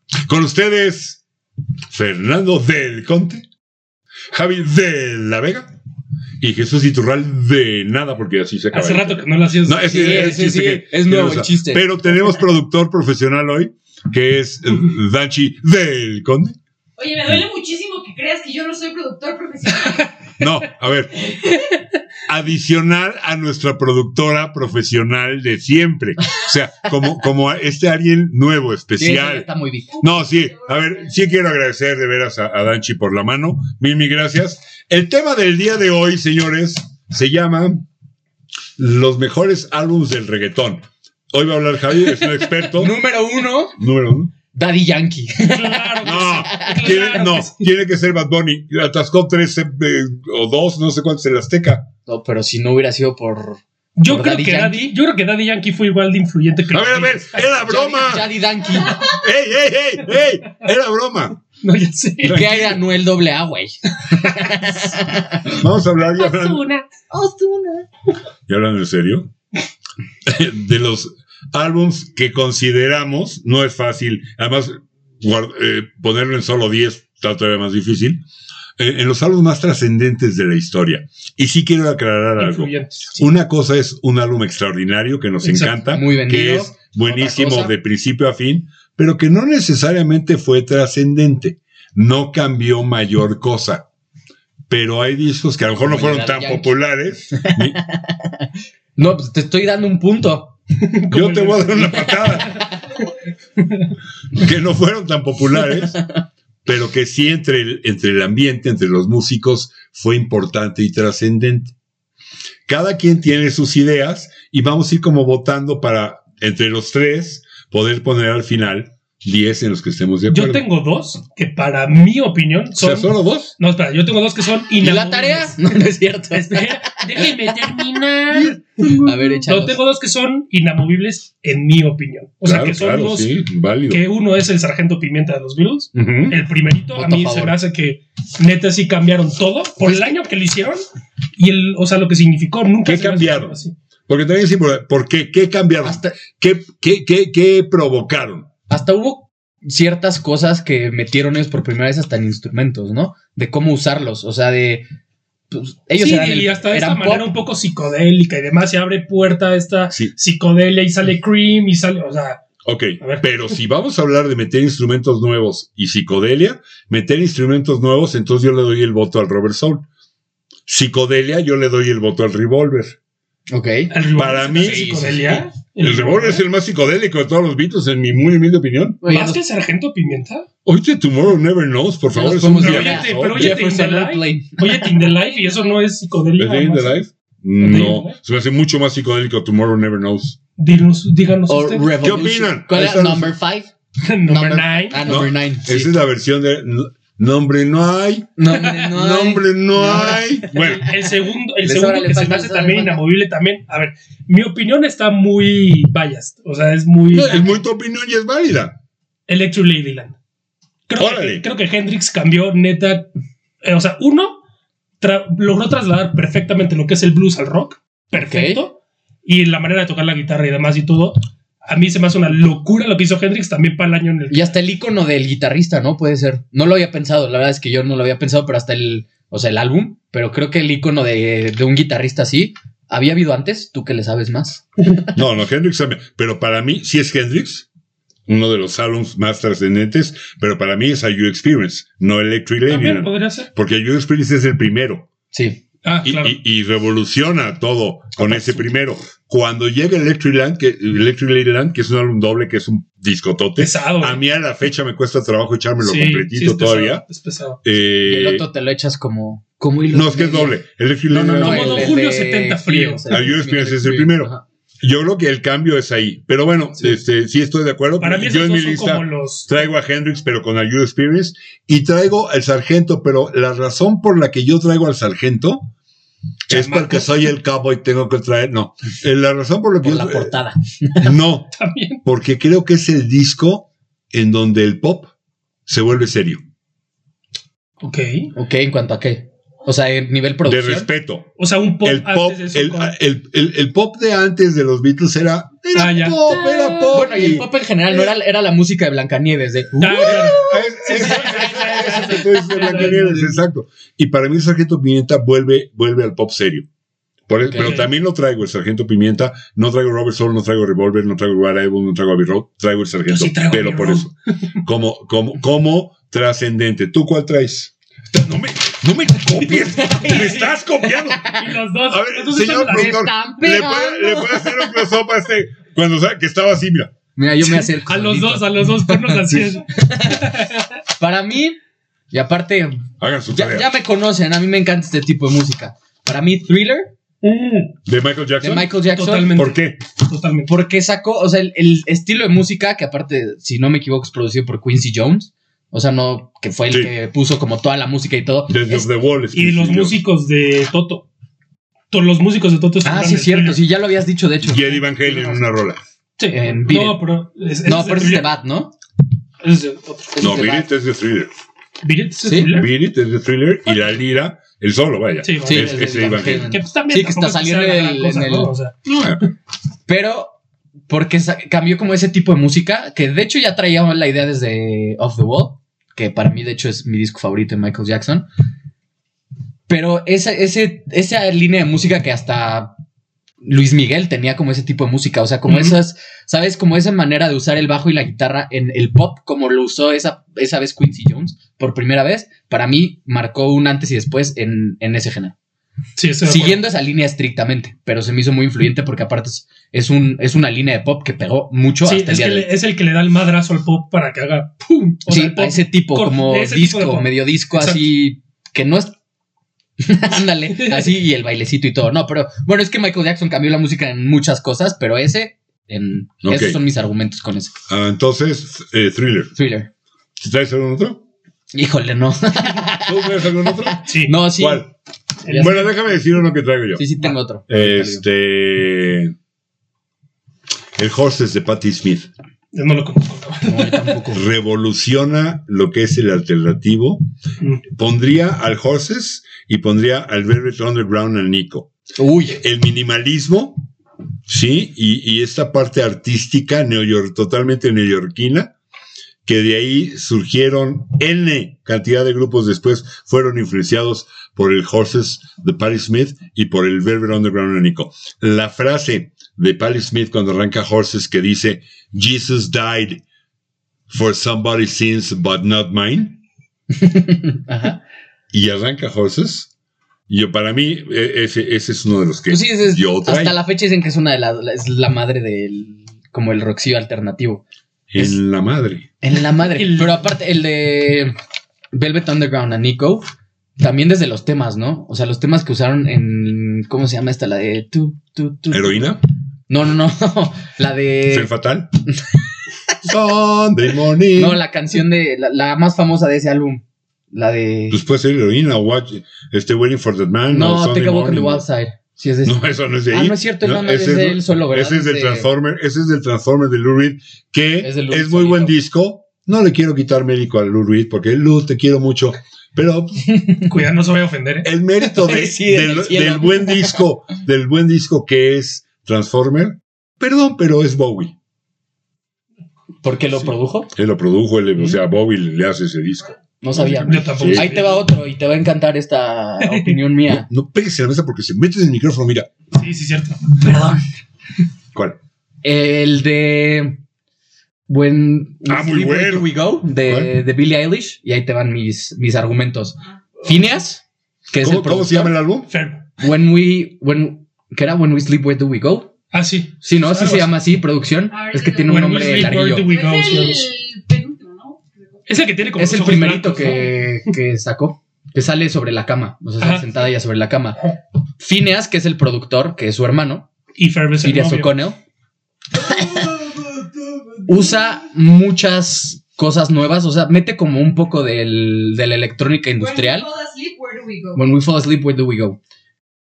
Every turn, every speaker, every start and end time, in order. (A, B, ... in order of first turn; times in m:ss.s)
0:00.2-0:01.2 A
0:01.9-0:03.5 A
0:04.3-0:05.7 A
0:06.4-0:16.6 A
0:08.7-0:10.4 B
0:09.8-0:12.4 C
0:17.0-0:20.3 D
0:20.4-0:21.3 A
0:21.2-0:21.7 D
0:22.2-0:29.5 A
0:29.0-0:30.0 C
0:29.9-0:31.4 D
0:30.0-0:37.8 A
0:38.8-0:42.9 A
0:42.7-0:43.8 C
0:43.8-0:44.3 A
0:44.5-0:47.1 C
0:45.5-0:47.7 B
0:46.0-0:51.9 A
0:52.1-0:54.9 C
0:54.0-0:57.6 B
0:56.7-0:58.3 A
0:57.6-0:59.2 C
0:58.9-1:01.4 A
1:01.6-1:02.4 B
1:02.2-1:02.8 A
1:02.2-1:05.6 C
1:04.4-1:04.6 B
1:05.4-1:06.6 A
1:06.2-1:06.9 B
1:07.1-1:07.8 D
1:08.5-1:09.3 A
1:10.2-1:18.2 A
1:18.8-1:33.8 A
1:22.4-1:23.3 B
1:25.4-1:25.8 B
1:25.9-1:27.7 C
1:34.7-1:37.8 A
1:35.8-1:36.7 C
1:37.4-1:40.6 C
1:40.9-1:42.6 B
1:41.1-1:42.6 A
1:42.3-1:42.9 C
1:44.3-1:46.0 A
1:46.6-1:51.7 A
1:52.7-2:00.6 A
2:00.3-2:05.7 B
2:02.8-2:03.5 A
2:04.8-2:07.4 C
2:06.3-2:13.4 B
2:08.3-2:09.4 A
2:09.0-2:09.8 C
2:12.4-2:14.0 A
2:13.9-2:20.8 B
2:15.9-2:16.4 A
2:16.9-2:17.6 C
2:19.8-2:20.2 C
2:21.4-2:23.7 B
2:22.8-2:28.5 A
2:25.8-2:26.1 C
2:28.7-2:34.8 C
2:35.5-2:37.3 C
2:36.0-2:42.4 B
2:42.6-2:49.8 A
2:43.0-2:43.3 B
2:50.7-2:53.0 A
2:53.5-2:53.9 C
2:53.9-2:56.4 B
2:54.1-2:55.1 A
2:54.6-2:55.5 C
2:55.8-2:59.0 A
2:59.0-2:59.4 C
2:59.1-3:00.5 B
3:00.6-3:03.6 A
3:02.1-3:04.9 C
3:02.5-3:07.0 B
3:05.0-3:05.8 D
3:06.4-3:10.4 A
3:07.6-3:08.2 B
3:10.6-3:12.1 B
3:11.5-3:13.7 C
3:12.0-3:13.4 A
3:14.0-3:15.2 B
3:14.2-3:15.9 C
3:15.0-3:20.9 A
3:18.4-3:20.8 C
3:20.5-3:27.5 B
3:21.6-3:23.0 C
3:27.1-3:28.8 A
3:29.3-3:30.2 B
3:30.9-3:33.1 B
3:31.0-3:31.4 A
3:33.6-3:34.4 B
3:35.0-3:44.5 B
3:38.1-3:38.6 C
3:44.3-3:54.6 C
3:55.1-3:57.6 A
3:58.3-4:05.1 A
4:02.7-4:03.5 B
4:05.3-4:05.6 C
4:05.8-4:06.4 B
4:06.0-4:17.0 A
4:08.2-4:08.6 B
4:13.6-4:14.2 B
4:15.8-4:17.6 B
4:17.6-4:18.4 A
4:18.0-4:20.6 C
4:19.9-4:22.0 A
4:21.1-4:24.4 C
4:21.4-4:23.0 B
4:23.1-4:35.7 A
4:28.0-4:29.6 B
4:36.5-4:40.3 A
4:36.5-4:37.2 B
4:39.8-4:41.1 C
4:41.0-4:41.5 A
4:41.6-4:42.0 B
4:42.0-4:45.1 A
4:45.6-4:46.4 A
4:47.8-4:48.3 B
4:48.3-4:50.9 C
4:50.4-4:57.5 A
4:51.4-4:52.9 B
4:55.7-4:57.0 B
4:56.9-5:03.1 C
4:59.8-5:03.4 B
5:00.0-5:06.6 A
5:07.3-5:26.9 A
5:07.6-5:07.9 B
5:13.1-5:14.1 B
5:19.7-5:20.5 C
5:21.0-5:21.5 C
5:21.4-5:23.1 B
5:22.6-5:24.7 C
5:27.2-5:30.2 C
5:27.4-5:30.7 B
5:31.0-5:31.6 C
5:32.1-5:36.9 C
5:33.0-5:33.7 A
5:37.2-5:37.8 B
5:37.9-5:38.7 A
5:38.4-5:39.4 C
5:38.9-5:40.5 B
5:39.3-5:39.8 A
5:40.5-5:48.9 C
5:48.5-5:50.0 A
5:49.3-5:51.1 B
5:51.9-5:53.6 B
5:52.8-5:55.4 C
5:54.4-5:55.8 A
5:56.2-5:58.3 B
5:56.3-5:57.0 C
5:57.6-5:58.7 C
5:59.4-6:00.2 B
6:00.2-6:00.7 C
6:00.2-6:01.3 A
6:01.8-6:02.7 B
6:02.2-6:02.5 C
6:02.5-6:06.5 A
6:05.2-6:08.8 B
6:05.4-6:08.5 C
6:08.8-6:09.2 A
6:09.9-6:10.4 C
6:10.9-6:18.3 C
6:19.7-6:22.7 C
6:23.4-6:35.4 C
6:25.4-6:25.8 B
6:36.0-6:36.6 B
6:36.2-6:42.5 C
6:41.8-6:47.9 B
6:45.1-6:49.0 C
6:49.8-6:57.5 C
6:50.5-6:51.0 B
6:56.2-6:56.6 A
6:57.7-6:59.3 A
6:59.3-6:59.7 C
7:00.2-7:01.0 A
7:01.5-7:04.7 C
7:02.8-7:03.8 A
7:03.8-7:04.2 B
7:04.4-7:04.7 A
7:05.2-7:05.7 C
7:05.3-7:05.7 B
7:05.3-7:06.8 A
7:06.8-7:08.0 C
7:07.5-7:09.1 A
7:10.8-7:12.1 A
7:12.5-7:14.0 B
7:13.5-7:14.2 C
7:14.1-7:17.0 A
7:17.7-7:21.7 A
7:22.0-7:22.4 C
7:22.3-7:23.7 A
7:24.3-7:28.5 A
7:29.2-7:43.0 A
7:43.9-7:46.2 A
7:46.7-7:47.8 C
7:48.3-7:49.5 A
7:50.1-7:53.4 A
7:52.3-7:57.4 C
7:57.9-7:58.8 A
7:59.0-8:01.1 C
7:59.5-8:00.0 B
8:01.7-8:03.1 C
8:03.6-8:08.9 C
8:08.5-8:09.0 A
8:09.5-8:11.3 C
8:11.1-8:11.7 A
8:12.8-8:14.4 A
8:14.1-8:17.8 C
8:17.7-8:21.4 A
8:20.3-8:25.3 C
8:22.2-8:33.1 A
8:27.6-8:28.5 C
8:33.1-8:33.5 C
8:33.4-8:34.5 B
8:34.4-8:41.1 A
8:34.8-8:36.8 C
8:42.8-8:43.7 C
8:43.8-8:47.8 A
8:46.4-8:50.3 C
8:46.8-8:47.7 B
8:49.4-8:49.8 B
8:50.1-8:52.3 A
8:52.5-8:53.4 B
8:53.4-8:53.8 C
8:55.4-8:56.8 C
8:57.7-9:05.2 C
8:58.5-8:59.3 A
8:59.8-9:00.1 A
9:04.4-9:05.5 A
9:05.5-9:05.8 B
9:06.0-9:08.9 C
9:09.1-9:10.4 B
9:09.6-9:12.7 C
9:11.1-9:15.0 D
9:11.6-9:13.5 B
9:15.1-9:17.1 B
9:15.6-9:20.6 C
9:19.4-9:19.8 B
9:21.2-9:23.3 C
9:23.6-9:24.6 B
9:24.0-9:24.8 C
9:25.6-9:26.1 C
9:27.2-9:33.1 C
9:32.6-9:34.2 D
9:34.1-9:35.4 C